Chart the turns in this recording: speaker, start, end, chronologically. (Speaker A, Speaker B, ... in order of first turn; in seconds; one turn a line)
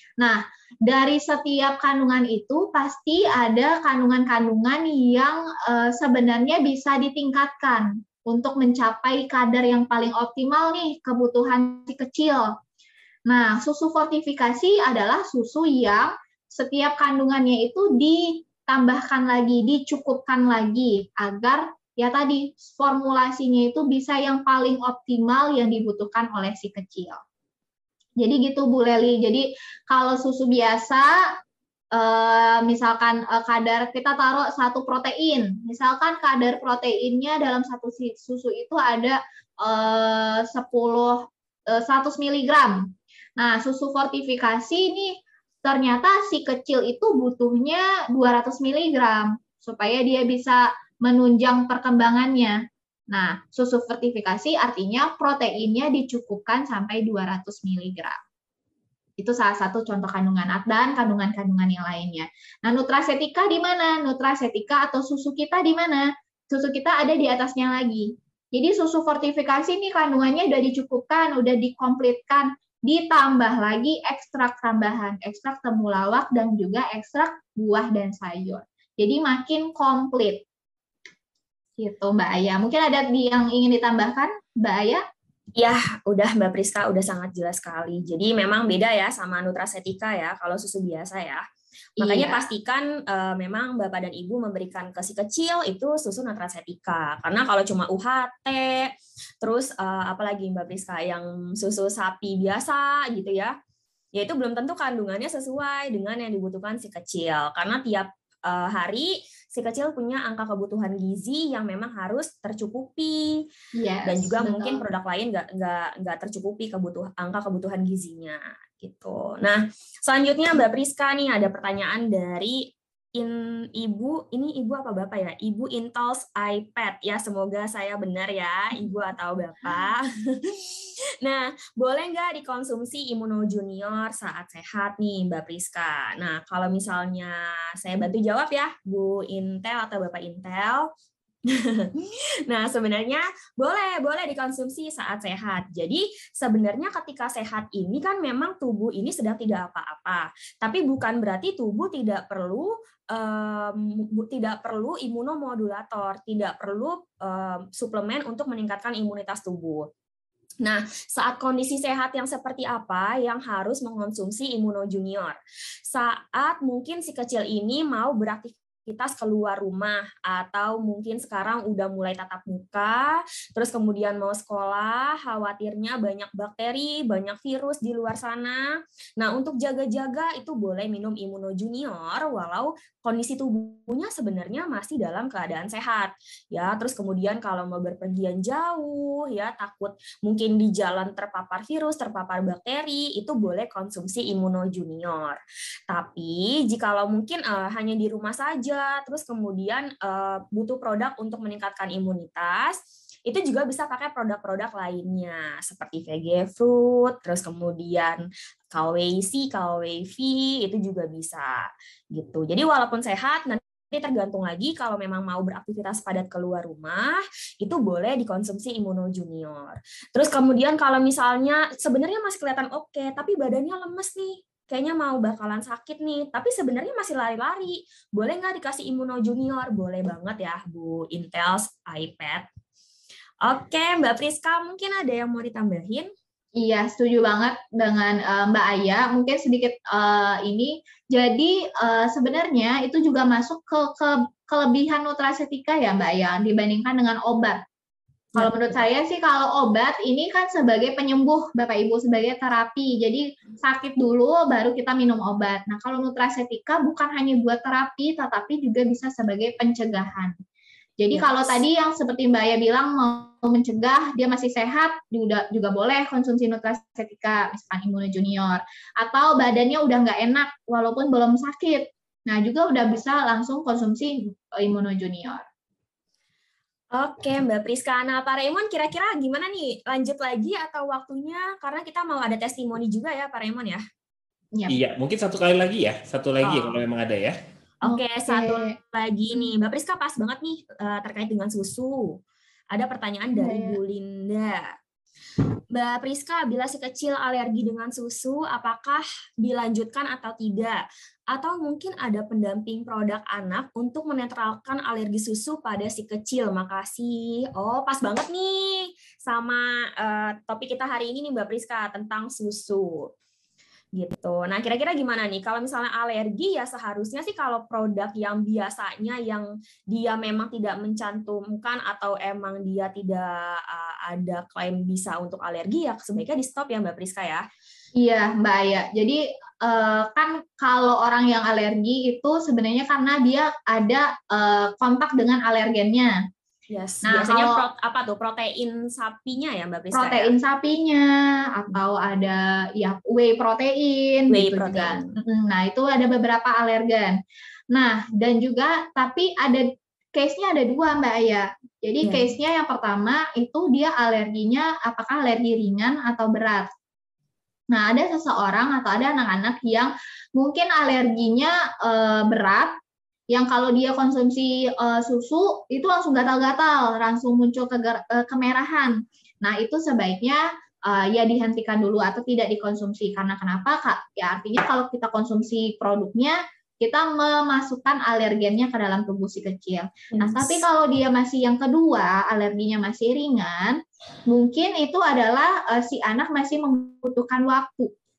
Speaker A: 0.2-12.5
Speaker A: 13.3-27.2
Speaker A: 28.2-31.1
Speaker A: 31.9-42.9
Speaker A: 43.4-52.6
Speaker A: 53.1-58.2
Speaker A: 59.2-80.4
Speaker A: 81.8-85.0
Speaker B: 85.6-91.4
Speaker A: 92.0-92.5
Speaker B: 92.0-98.9
Speaker B: 99.4-103.5
Speaker B: 104.1-113.4
Speaker A: 113.8-114.8
Speaker B: 114.0-140.9
Speaker B: 141.5-159.9
Speaker B: 160.6-165.4
Speaker B: 165.9-195.4
Speaker B: 195.9-208.2
Speaker B: 208.7-232.5
Speaker B: 233.4-236.1
Speaker A: 236.6-247.6
Speaker B: 248.3-248.8
Speaker A: 248.4-260.4
Speaker A: 261.0-275.4
Speaker B: 261.1-261.6
Speaker B: 276.9-283.8
Speaker C: 284.7-287.4
Speaker B: 286.4-286.8
Speaker B: 287.8-292.2
Speaker A: 287.9-288.8
Speaker B: 292.7-294.7
Speaker A: 293.4-293.8
Speaker B: 295.7-313.1
Speaker B: 313.9-327.4
Speaker A: 328.0-336.1
Speaker B: 336.7-340.4
Speaker A: 337.1-337.6
Speaker A: 339.9-347.2
Speaker B: 344.3-345.1
Speaker A: 347.7-356.6
Speaker B: 352.0-352.4
Speaker A: 357.7-362.7
Speaker A: 363.3-387.9
Speaker B: 380.1-380.6